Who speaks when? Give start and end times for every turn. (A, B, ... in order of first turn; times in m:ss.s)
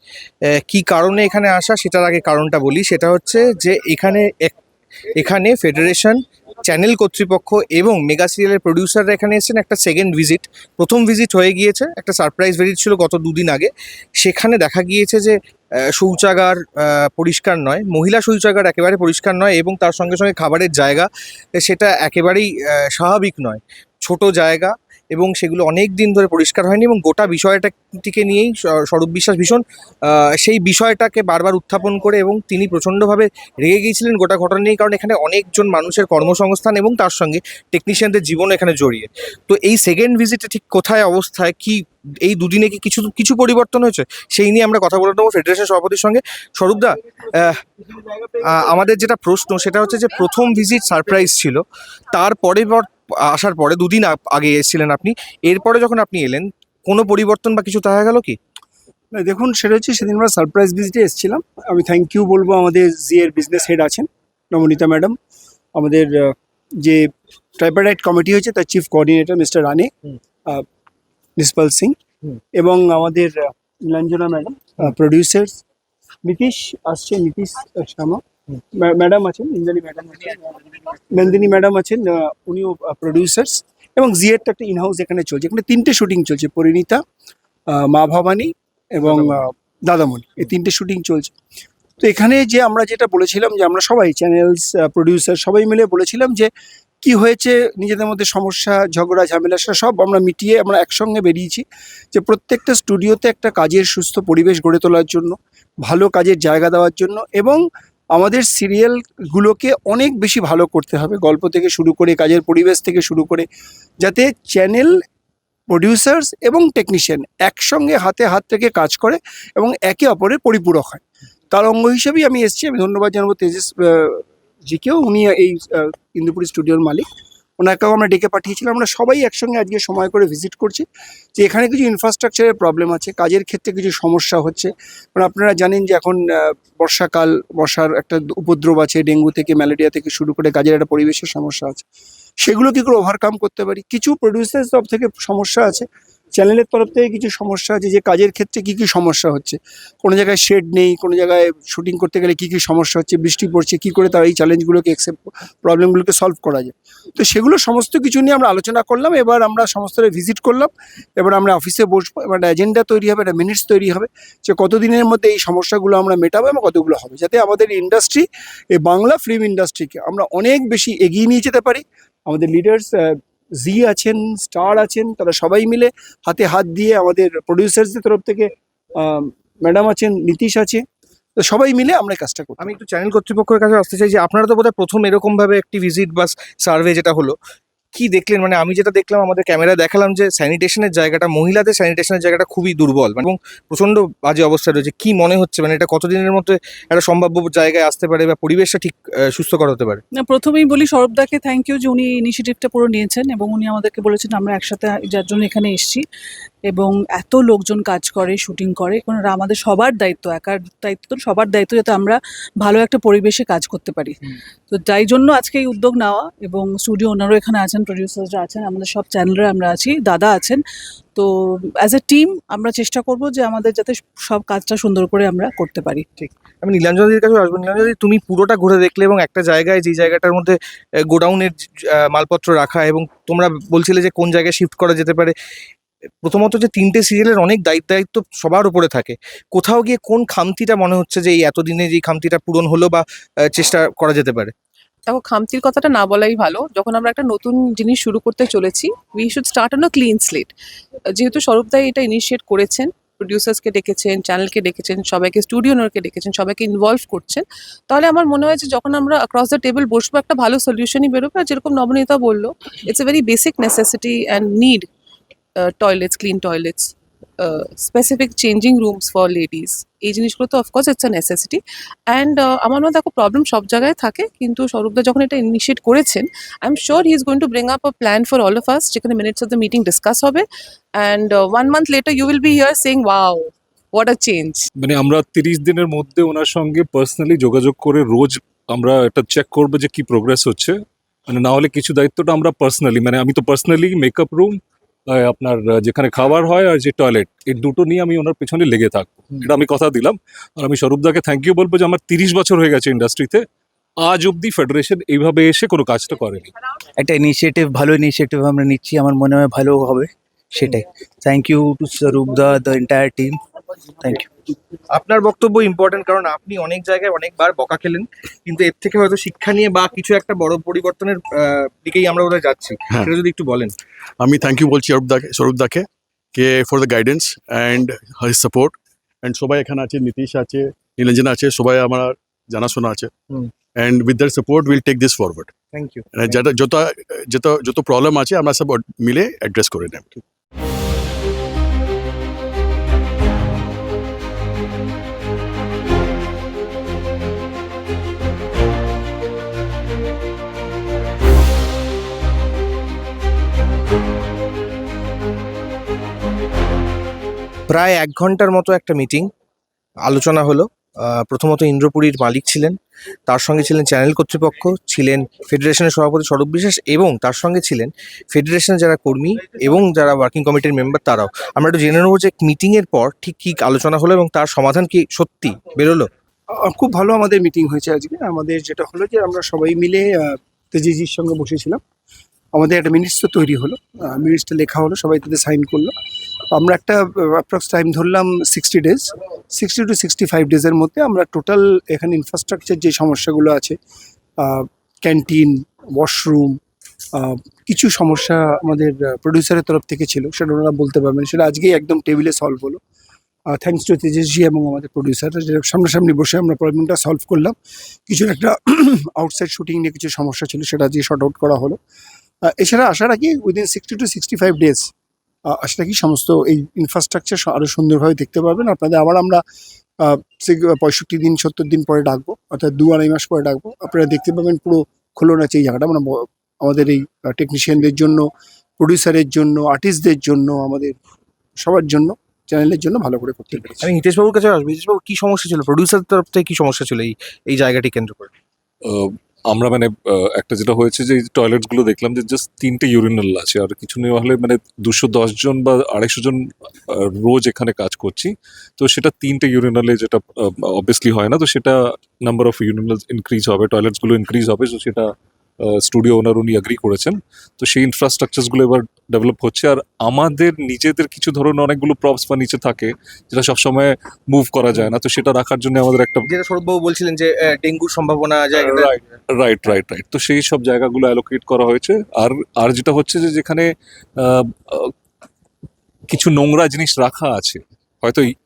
0:00.7-0:04.6 A
0:05.2-0:15.3 A
0:16.0-0:58.4 A
0:59.1-1:05.1 B
1:05.8-1:07.1 B
1:07.6-1:09.9 B
1:11.4-1:12.0 B
1:12.5-1:15.6 B
1:16.2-1:18.2 B
1:18.8-1:27.0 B
1:27.7-1:31.3 B
1:32.0-1:36.5 B
1:37.0-1:47.6 B
1:48.1-1:53.5 B
1:54.0-1:54.9 B
1:55.7-2:07.0 B
2:07.6-2:21.8 B
2:22.4-2:25.8 B
2:26.4-3:00.8 B
3:01.4-3:02.6 B
3:02.6-3:07.3 A
3:07.9-3:20.0 A
3:20.2-3:26.0 C
3:26.7-3:40.6 C
3:41.8-3:46.0 C
3:46.2-3:50.6 A
3:51.1-3:55.3 A
3:56.2-4:04.5 A
4:05.0-4:10.5 D
4:11.1-4:24.9 D
4:25.6-4:44.6 D
4:44.8-5:03.4 E
5:04.0-5:06.5 E
5:07.0-5:13.4 F
5:14.0-5:14.3 F
5:14.9-5:23.7 A
5:24.2-5:33.1 G
5:33.8-5:35.5 G
5:35.7-5:36.0 A
5:36.1-5:40.2 G
5:57.7-5:59.3 A
6:00.0-6:02.7 A
6:03.3-6:16.1 A
6:16.6-6:21.8 B
6:22.5-6:25.9 B
6:26.5-6:33.8 B
6:34.4-6:36.6 B
6:37.1-6:42.8 B
6:43.5-6:47.5 B
6:48.1-6:51.8 B
6:52.5-6:54.9 B
6:55.5-6:59.4 B
7:00.0-7:08.3 B
7:08.8-7:10.9 B
7:11.6-7:13.9 B
7:13.8-7:18.3 A
7:18.8-7:35.1 E
7:35.6-7:46.2 E
7:46.2-7:49.0 A
7:48.6-7:54.9 E
7:56.1-7:58.3 E